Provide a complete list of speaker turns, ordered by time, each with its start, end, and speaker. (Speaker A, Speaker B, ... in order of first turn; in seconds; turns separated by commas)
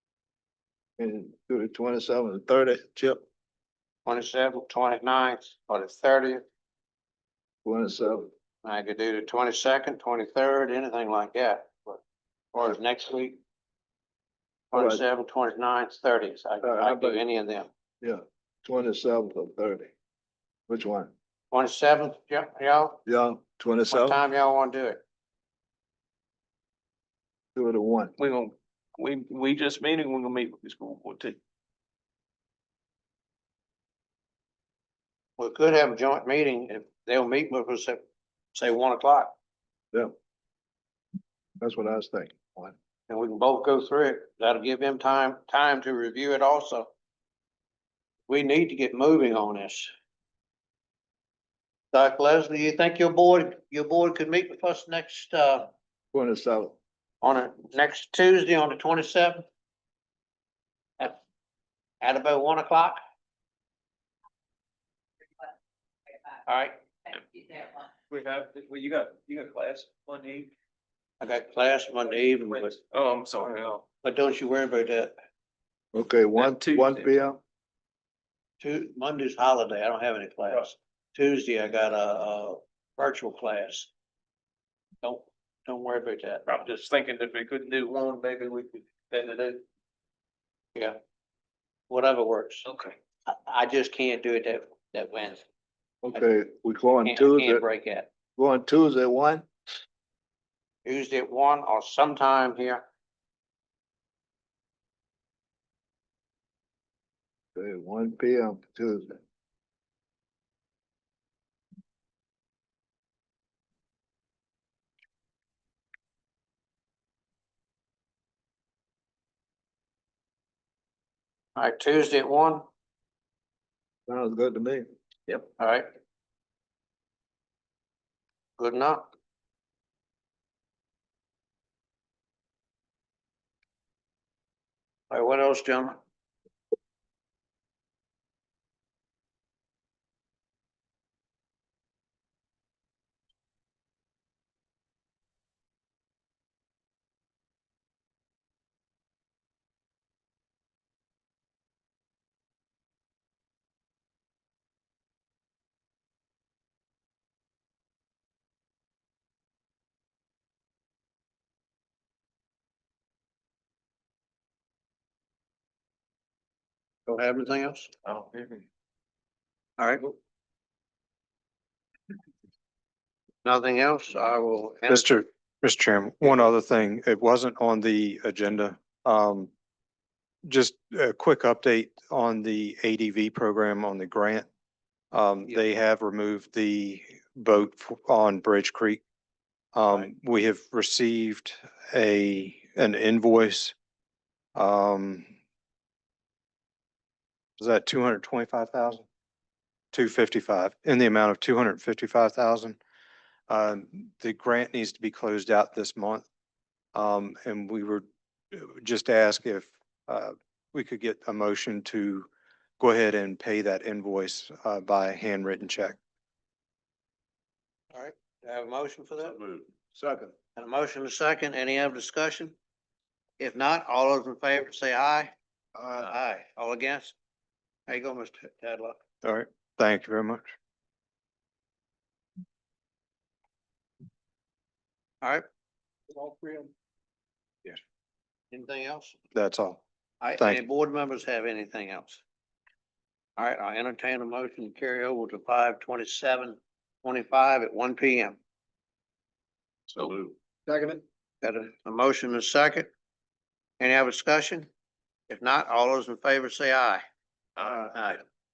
Speaker A: 1.0-3.2, Speaker B: 4.0-6.4, Speaker A: 7.6-8.3, Speaker B: 8.6-12.0, Speaker B: 12.5-13.4, Speaker B: 14.7-17.7, Speaker A: 14.7-15.0, Speaker A: 16.6-17.2, Speaker A: 18.0-19.9, Speaker A: 20.7-21.1, Speaker B: 21.5-23.0, Speaker A: 23.1-24.2, Speaker B: 23.9-25.0, Speaker A: 27.5-28.1, Speaker C: 28.2-31.4, Speaker B: 35.4-38.0, Speaker B: 38.5-39.3, Speaker A: 41.6-42.7, Speaker B: 43.1-46.9, Speaker B: 48.3-49.9, Speaker B: 51.9-55.7, Speaker A: 56.1-56.8, Speaker B: 57.2-59.5, Speaker B: 62.0-63.0, Speaker B: 66.5-67.2, Speaker C: 68.1-70.5, Speaker B: 71.2-72.8, Speaker C: 72.8-73.8, Speaker B: 74.0-75.1, Speaker A: 75.9-77.4, Speaker C: 76.3-77.1, Speaker B: 78.6-83.9, Speaker B: 85.0-86.4, Speaker C: 86.5-89.6, Speaker B: 91.9-92.7, Speaker C: 92.7-92.9, Speaker B: 93.3-95.4, Speaker A: 96.0-97.6, Speaker B: 97.0-98.1, Speaker A: 98.4-99.5, Speaker B: 100.8-102.8, Speaker A: 107.5-109.2, Speaker B: 121.5-122.7, Speaker A: 124.1-124.8, Speaker B: 125.3-125.9, Speaker B: 128.6-129.1, Speaker B: 135.1-136.0, Speaker B: 167.1-167.9, Speaker C: 168.1-168.6, Speaker B: 169.8-170.1, Speaker B: 173.4-175.1, Speaker D: 174.9-179.5, Speaker D: 180.4-184.5, Speaker D: 185.1-189.0, Speaker D: 189.7-193.7, Speaker D: 194.5-195.3, Speaker D: 197.6-199.1, Speaker D: 199.9-202.8, Speaker D: 203.5-206.2, Speaker D: 206.9-212.3, Speaker D: 212.8-216.0, Speaker B: 217.9-219.6, Speaker A: 219.9-220.3, Speaker B: 220.6-222.5, Speaker B: 223.4-225.3, Speaker B: 225.9-227.2, Speaker B: 227.9-229.0, Speaker D: 229.2-230.5, Speaker B: 236.2-236.6, Speaker B: 238.5-239.2, Speaker D: 239.3-239.8, Speaker B: 240.2-242.2, Speaker B: 243.4-248.4, Speaker C: 250.0-250.2, Speaker B: 251.4-252.9, Speaker B: 253.8-254.7, Speaker B: 255.3-257.0, Speaker B: 257.6-258.2